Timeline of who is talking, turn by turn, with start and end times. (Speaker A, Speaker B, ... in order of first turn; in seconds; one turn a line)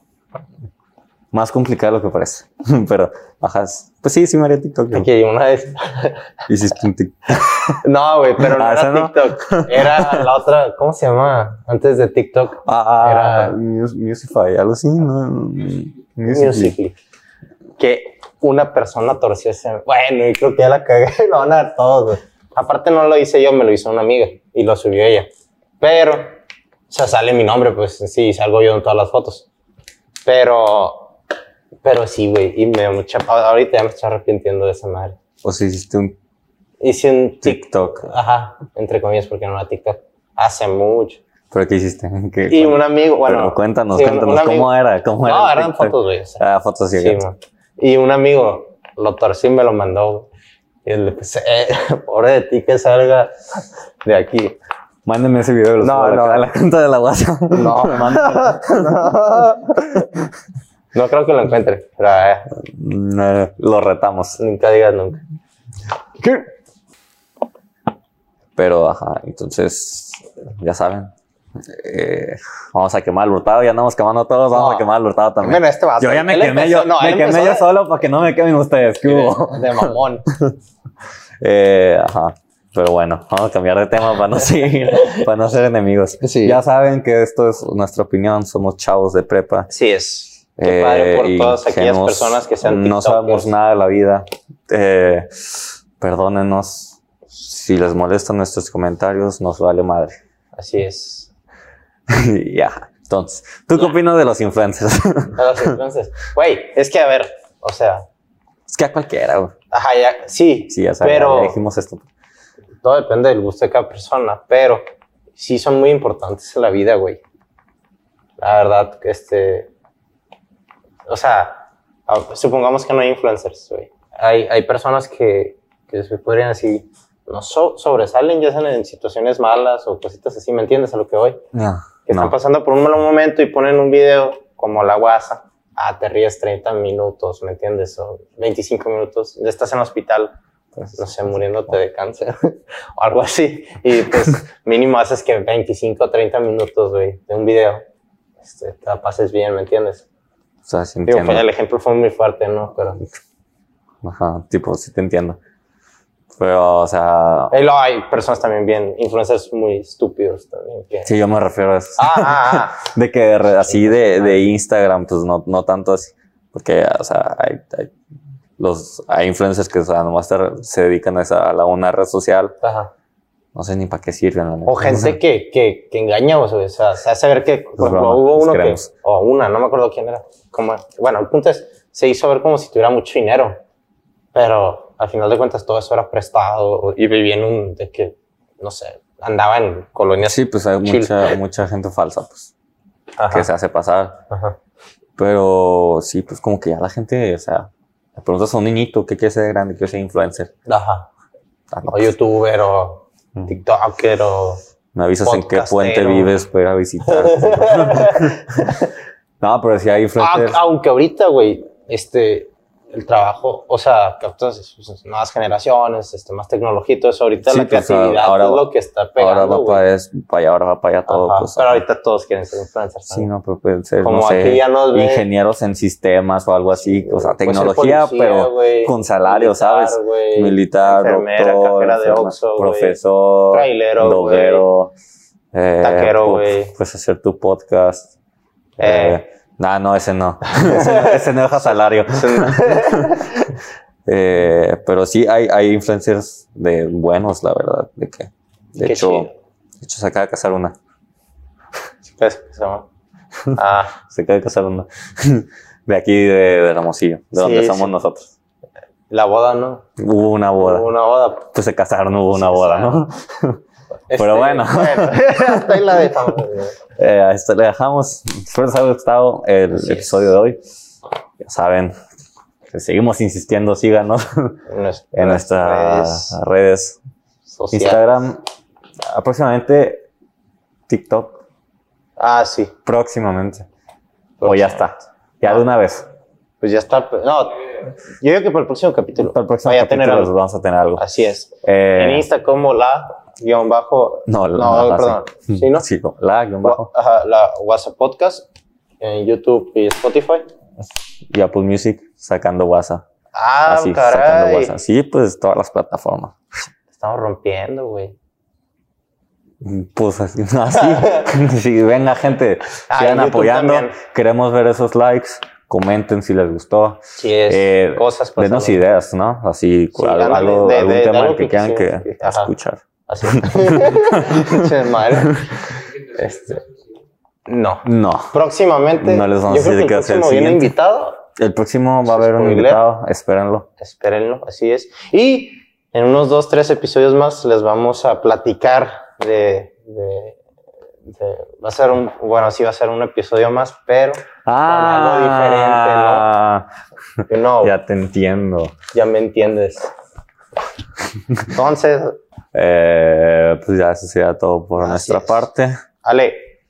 Speaker A: 1.3-5.1
Speaker B: 4.9-6.3
Speaker A: 6.5-7.8
Speaker B: 7.7-13.6
Speaker A: 8.4-10.3
Speaker A: 12.6-16.7
Speaker B: 16.3-17.0
Speaker B: 17.8-25.3
Speaker B: 25.8-26.3
Speaker B: 26.9-29.5
Speaker B: 30.2-31.1
Speaker B: 31.8-35.2
Speaker A: 35.4-36.1
Speaker B: 36.8-41.2
Speaker A: 37.4-38.1
Speaker A: 41.5-47.2
Speaker B: 42.5-44.7
Speaker B: 45.2-46.4
Speaker B: 47.0-50.3
Speaker B: 50.8-54.6
Speaker A: 55.0-59.1
Speaker B: 55.8-56.5
Speaker B: 57.5-60.1
Speaker B: 60.9-62.5
Speaker A: 62.5-64.4
Speaker B: 64.4-65.2
Speaker A: 68.5-71.1
Speaker A: 71.7-80.5
Speaker B: 74.5-74.9
Speaker B: 75.4-77.7
Speaker B: 79.0-80.2
Speaker A: 81.4-89.7
Speaker B: 86.2-86.6
Speaker B: 89.7-93.5
Speaker A: 90.6-100.2
Speaker B: 100.5-101.3
Speaker A: 102.1-105.8
Speaker B: 105.3-108.1
Speaker A: 108.7-109.5
Speaker B: 109.7-111.6
Speaker A: 110.7-112.0
Speaker B: 112.8-114.8
Speaker B: 115.3-117.2
Speaker B: 118.4-119.7
Speaker B: 121.1-131.4
Speaker A: 131.5-132.3
Speaker B: 132.1-140.3
Speaker A: 140.8-141.3
Speaker B: 141.0-147.8
Speaker B: 148.4-150.0
Speaker A: 150.7-151.5
Speaker B: 151.1-153.0
Speaker A: 154.0-155.4
Speaker A: 156.3-157.5
Speaker B: 157.5-161.1
Speaker A: 161.1-167.9
Speaker B: 162.0-162.8
Speaker B: 163.5-164.5
Speaker A: 168.6-172.6
Speaker B: 172.6-172.9
Speaker A: 173.5-175.2
Speaker B: 174.7-183.6
Speaker A: 177.8-178.9
Speaker B: 184.3-191.3
Speaker A: 190.2-192.5
Speaker B: 193.2-193.5
Speaker A: 193.3-194.2
Speaker A: 195.2-200.5
Speaker B: 200.7-201.1
Speaker A: 201.7-202.1
Speaker B: 201.9-204.6
Speaker A: 204.9-208.6
Speaker B: 205.2-206.4
Speaker B: 207.0-208.9
Speaker A: 209.4-210.6
Speaker B: 210.2-219.8
Speaker A: 217.4-221.8
Speaker B: 221.1-223.3
Speaker A: 223.1-234.9
Speaker B: 224.0-225.3
Speaker B: 226.7-233.0
Speaker B: 233.5-234.6
Speaker A: 235.5-238.1
Speaker B: 235.8-236.7
Speaker B: 238.8-239.2
Speaker A: 238.8-243.5
Speaker B: 240.6-243.4
Speaker A: 244.1-249.3
Speaker B: 248.8-249.3
Speaker A: 249.8-250.8
Speaker B: 252.2-252.9
Speaker A: 253.5-258.3
Speaker B: 253.5-253.9
Speaker B: 257.3-257.9
Speaker B: 259.1-259.8
Speaker A: 260.0-260.9
Speaker B: 260.6-261.5
Speaker A: 261.5-263.6
Speaker B: 262.3-263.0
Speaker B: 264.1-266.8
Speaker A: 264.2-265.8
Speaker A: 267.0-270.6
Speaker B: 269.7-270.3
Speaker A: 271.4-271.9
Speaker A: 272.7-274.6
Speaker B: 274.7-276.4
Speaker A: 275.1-277.0
Speaker B: 277.5-278.0
Speaker A: 277.7-278.4
Speaker A: 279.0-280.1
Speaker A: 280.9-281.4
Speaker B: 282.2-282.7
Speaker A: 282.9-283.6
Speaker B: 284.4-284.9
Speaker A: 284.4-286.1
Speaker B: 286.6-287.6
Speaker B: 288.2-290.3
Speaker A: 289.2-291.0
Speaker B: 291.0-295.9
Speaker A: 291.6-292.2
Speaker A: 294.3-296.9
Speaker B: 296.6-298.4
Speaker B: 299.0-300.5
Speaker A: 301.3-303.0
Speaker B: 303.3-304.7
Speaker A: 303.7-306.4
Speaker B: 306.9-308.1
Speaker A: 309.6-325.4
Speaker B: 312.9-314.0
Speaker B: 317.1-318.8
Speaker B: 319.9-322.5
Speaker B: 323.1-326.7
Speaker B: 327.5-331.2
Speaker A: 327.8-328.3
Speaker A: 329.0-330.7
Speaker A: 331.4-333.7
Speaker B: 332.1-332.8
Speaker B: 333.8-340.4
Speaker B: 341.1-346.3
Speaker A: 344.4-346.7
Speaker B: 347.3-347.7
Speaker A: 347.6-348.8
Speaker B: 348.9-349.9
Speaker B: 351.4-352.2
Speaker A: 352.5-355.8
Speaker B: 354.8-355.4
Speaker B: 356.0-356.4